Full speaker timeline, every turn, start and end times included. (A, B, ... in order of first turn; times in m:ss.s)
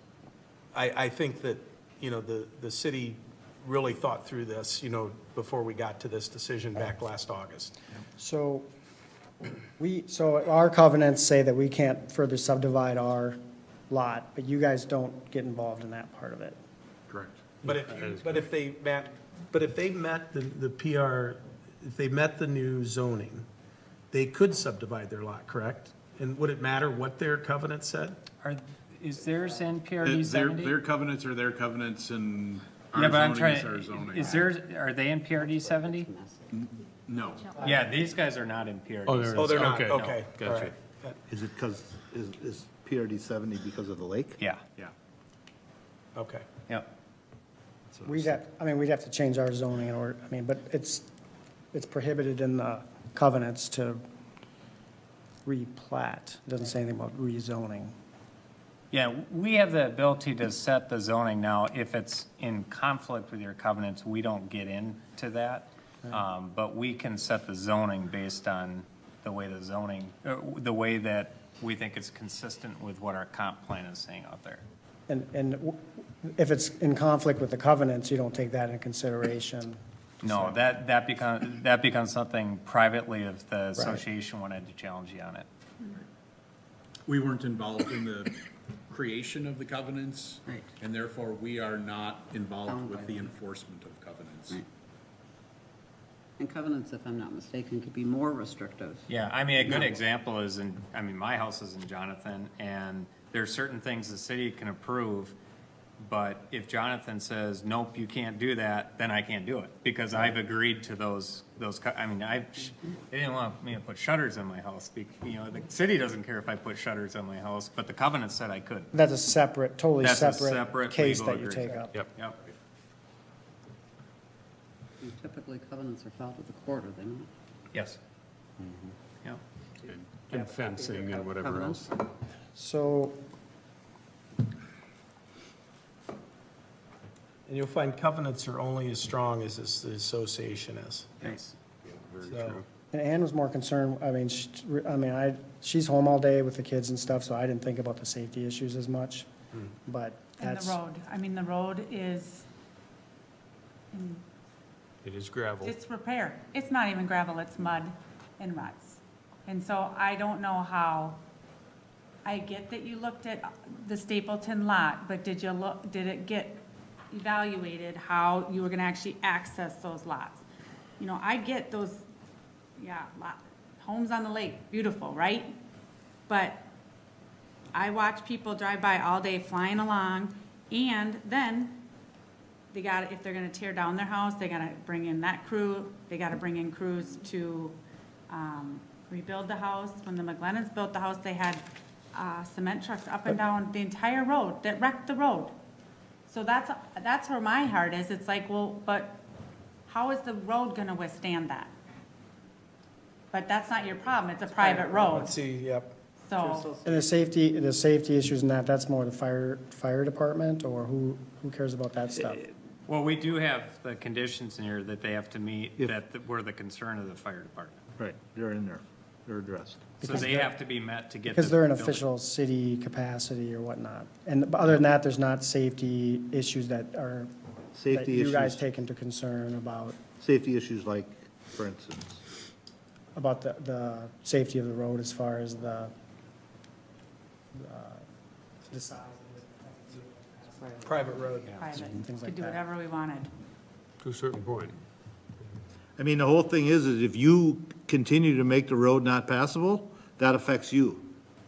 0:00.7-0:07.7 A
0:08.2-0:08.7 B
0:09.8-0:13.4 B
0:13.9-0:16.6 B
0:17.1-0:17.6 C
0:17.6-0:23.5 A
0:17.7-0:18.4 D
0:24.1-0:28.2 A
0:28.4-0:30.7 E
0:30.0-0:34.5 C
0:32.9-0:36.1 E
0:35.4-0:36.5 F
0:36.5-0:37.5 C
0:37.6-0:40.2 E
0:39.0-0:40.7 D
0:39.4-0:41.2 A
0:41.3-0:44.4 G
0:46.1-0:46.4 A
0:47.9-0:48.3 C
0:48.0-0:51.1 B
0:51.7-0:54.0 B
0:55.4-0:57.9 B
0:58.9-1:14.6 E
1:15.1-1:19.8 B
1:20.2-1:25.4 E
1:23.8-1:24.0 B
1:27.1-1:28.4 C
1:28.9-1:34.6 C
1:32.7-1:33.3 F
1:36.4-1:40.0 F
1:39.1-1:45.3 E
1:46.0-1:58.9 E
1:58.9-2:01.9 B
2:00.0-2:02.4 E
2:05.0-2:07.3 F
2:07.7-2:08.0 E
2:09.8-2:11.9 D
2:10.4-2:11.8 F
2:12.5-2:13.2 B
2:17.5-2:21.2 A
2:21.8-2:22.6 D
2:22.3-2:22.6 A
2:22.9-2:29.3 B
2:29.8-2:30.8 B
2:30.4-2:32.4 H
2:33.9-2:34.2 H
2:35.0-2:35.7 D
2:35.6-2:41.2 H
2:42.2-2:50.4 H
2:51.0-2:52.0 H
2:52.8-2:55.5 H
2:56.3-2:56.7 H
2:57.7-3:01.8 H
3:02.7-3:07.8 H
3:08.3-3:15.5 H
3:16.3-3:19.2 H
3:19.9-3:21.7 H
3:23.3-3:25.4 H
3:24.6-3:25.9 A
3:26.2-3:26.7 H
3:26.4-3:27.0 F
3:26.8-3:32.5 B
3:32.8-3:37.8 E
3:38.0-3:39.9 G
3:40.0-3:40.5 B
3:40.0-3:42.0 E
3:41.2-3:47.3 B
3:47.7-3:48.6 G
3:47.8-3:50.0 B
3:50.2-3:52.2 G
3:53.1-3:55.9 B
3:57.5-3:58.0 B
3:58.7-4:02.6 B
4:00.8-4:01.8 A
4:01.6-4:03.3 H
4:04.0-4:04.8 D
4:06.0-4:11.1 G